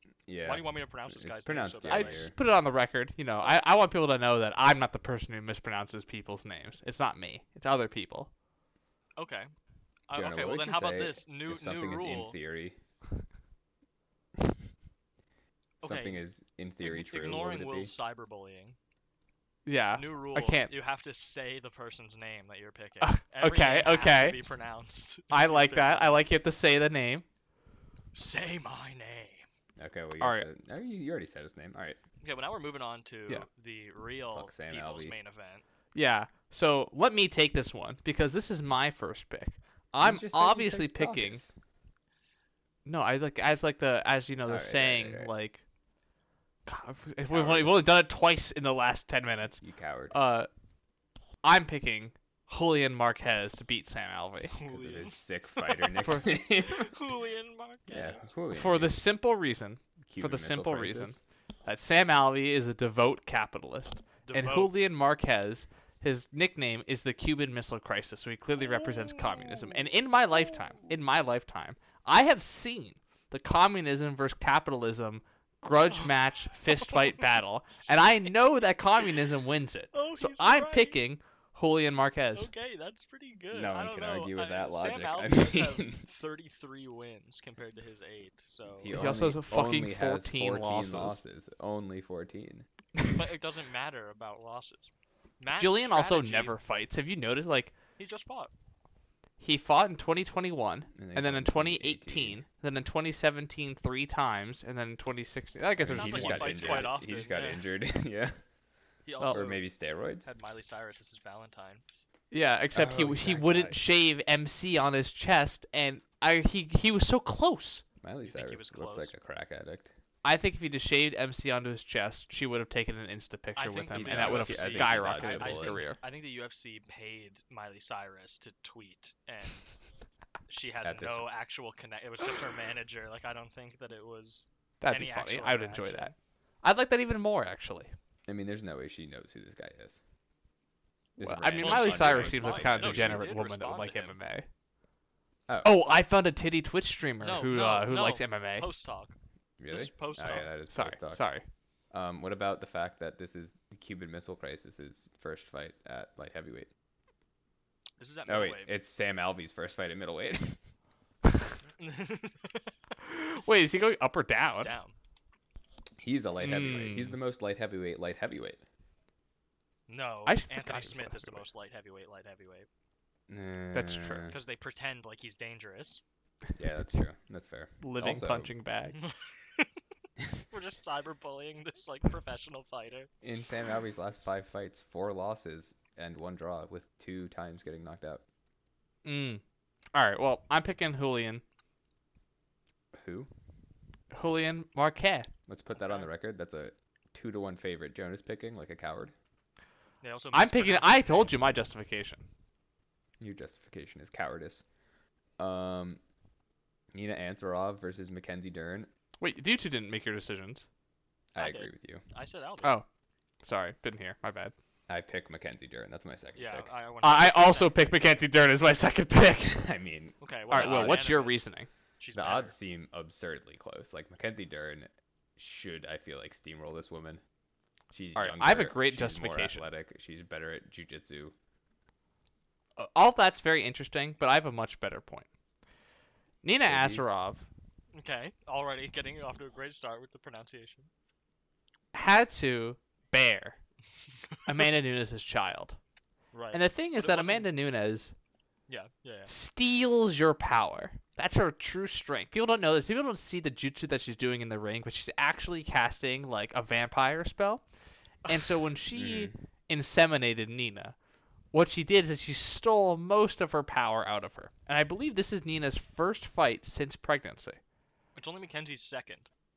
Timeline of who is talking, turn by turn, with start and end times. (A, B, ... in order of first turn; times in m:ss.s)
0:00.3-0:02.3 A
0:00.4-0:02.3 B
0:01.9-0:08.3 C
0:09.2-0:09.5 B
0:10.1-0:12.4 B
0:10.1-0:12.8 A
0:15.8-0:16.2 B
0:15.8-0:17.9 A
0:16.8-0:18.8 B
0:19.6-0:20.7 C
0:19.9-0:26.2 B
0:23.0-0:24.4 C
0:25.3-0:27.2 C
0:28.1-0:29.4 B
0:29.8-0:32.0 A
0:30.2-0:30.5 C
0:32.2-0:35.6 B
0:34.3-0:35.2 A
0:35.9-0:41.4 C
0:40.0-0:41.5 A
0:42.8-0:45.6 C
0:44.4-0:45.3 A
0:46.6-0:50.5 C
0:47.3-0:47.8 A
0:49.6-0:50.2 A
0:51.4-0:54.5 C
0:54.5-0:58.3 B
0:54.7-0:56.9 A
0:56.0-0:56.2 C
0:57.9-0:59.0 A
0:58.5-1:22.5 C
1:00.0-1:01.2 A
1:04.2-1:04.7 B
1:15.9-1:17.3 B
1:19.9-1:21.0 B
1:22.3-1:29.0 B
1:23.5-1:26.0 A
1:28.8-1:32.7 A
1:28.9-1:31.2 C
1:33.1-1:36.6 B
1:35.6-1:37.7 C
1:38.0-1:38.5 B
1:39.4-1:46.9 C
1:41.0-1:42.4 A
1:45.8-1:48.4 A
1:45.9-1:47.7 B
1:49.0-1:49.7 B
1:49.3-1:50.3 A
1:50.2-1:51.8 B
1:52.3-1:57.8 C
1:52.7-1:53.8 A
1:58.0-1:59.9 A
1:58.2-1:59.1 B
2:00.2-2:06.0 C
2:03.6-2:09.8 B
2:03.9-2:05.8 A
2:10.5-2:16.1 B
2:10.8-2:11.3 A
2:14.8-2:17.9 C
2:18.3-2:20.0 A
2:21.2-2:23.3 A
2:21.2-2:24.5 C
2:21.6-2:24.2 B
2:25.5-2:25.8 A
2:25.6-2:28.7 C
2:27.2-2:29.2 B
2:29.6-2:31.2 A
2:29.7-2:30.5 B
2:30.7-2:31.4 C
2:31.9-2:36.7 A
2:38.0-2:38.7 B
2:38.3-2:40.6 A
2:41.8-2:42.7 B
2:43.0-2:44.7 C
2:44.6-2:44.9 B
2:46.0-2:48.6 A
2:46.4-2:47.2 C
2:49.9-2:52.7 B
2:50.2-2:51.5 C
2:53.3-2:54.4 A
2:53.7-2:54.3 C
2:54.3-2:56.0 B
2:56.6-2:58.5 A
2:57.8-2:59.0 C
2:58.9-2:59.7 B
3:00.5-3:03.1 B
3:03.2-3:08.2 A
3:09.0-3:09.4 C
3:09.9-3:11.4 C
3:12.9-3:13.3 A
3:14.1-3:15.3 C
3:15.5-3:19.1 A
3:15.7-3:16.1 B
3:20.0-3:21.3 B
3:20.3-3:22.2 C
3:23.2-3:24.6 A
3:25.4-3:26.0 A
3:26.9-3:28.9 A
3:29.2-3:30.6 C
3:31.3-3:32.0 A
3:31.4-3:32.8 B
3:33.4-3:34.5 C
3:34.9-3:36.7 A
3:36.4-3:38.0 B
3:37.0-3:39.6 C
3:39.4-3:41.2 A
3:40.2-3:41.4 B
3:40.5-3:41.7 C
3:42.0-3:42.6 B
3:42.1-3:47.2 A
3:47.9-3:51.3 A
3:48.1-3:49.7 C
3:52.8-3:55.3 C
3:56.4-3:57.5 C
3:56.6-3:57.1 A
3:57.9-4:00.9 B
4:01.9-4:03.6 C
4:04.4-4:05.8 C
4:06.3-4:07.5 B
4:06.5-4:08.1 C
4:08.7-4:09.3 B
4:09.3-4:17.6 C
4:18.3-4:20.9 C
4:18.9-4:19.4 A
4:21.5-4:27.6 C
4:28.2-4:29.3 B